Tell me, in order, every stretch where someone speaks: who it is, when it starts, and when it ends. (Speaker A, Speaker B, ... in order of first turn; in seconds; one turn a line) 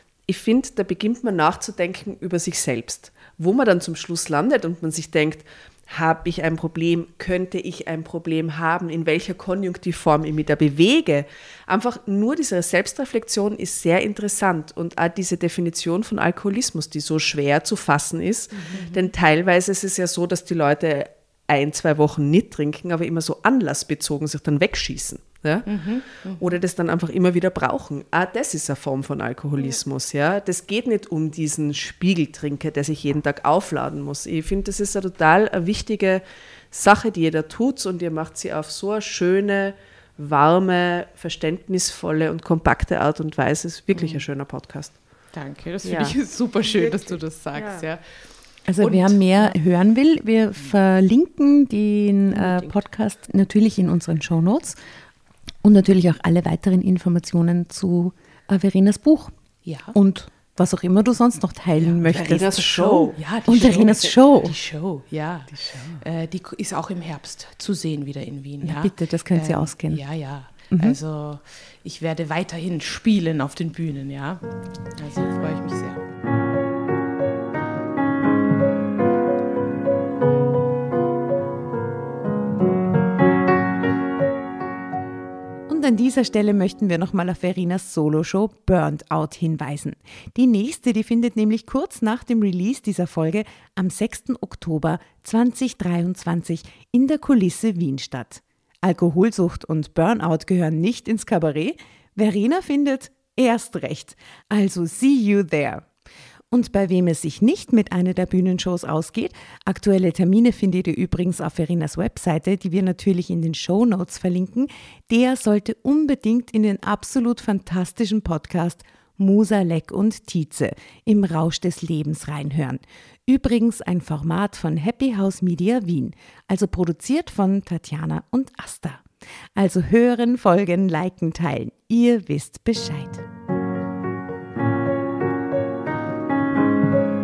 Speaker A: 0.3-45.0
Speaker B: 18.7-19.0
Speaker B: 25.7-26.5
Speaker B: 43.9-44.2
Speaker B: 45.3-48.0
Speaker A: 45.8-47.9
Speaker C: 48.7-54.8
Speaker B: 48.8-49.5
Speaker A: 52.3-52.7
Speaker C: 55.6-59.3
Speaker B: 59.6-59.9
Speaker C: 59.9-64.5
Speaker A: 62.0-63.2
Speaker B: 63.1-76.0
Speaker A: 65.5-66.0
Speaker C: 68.6-70.0
Speaker C: 70.7-71.0
Speaker C: 85.7-105.9
Speaker C: 106.5-133.2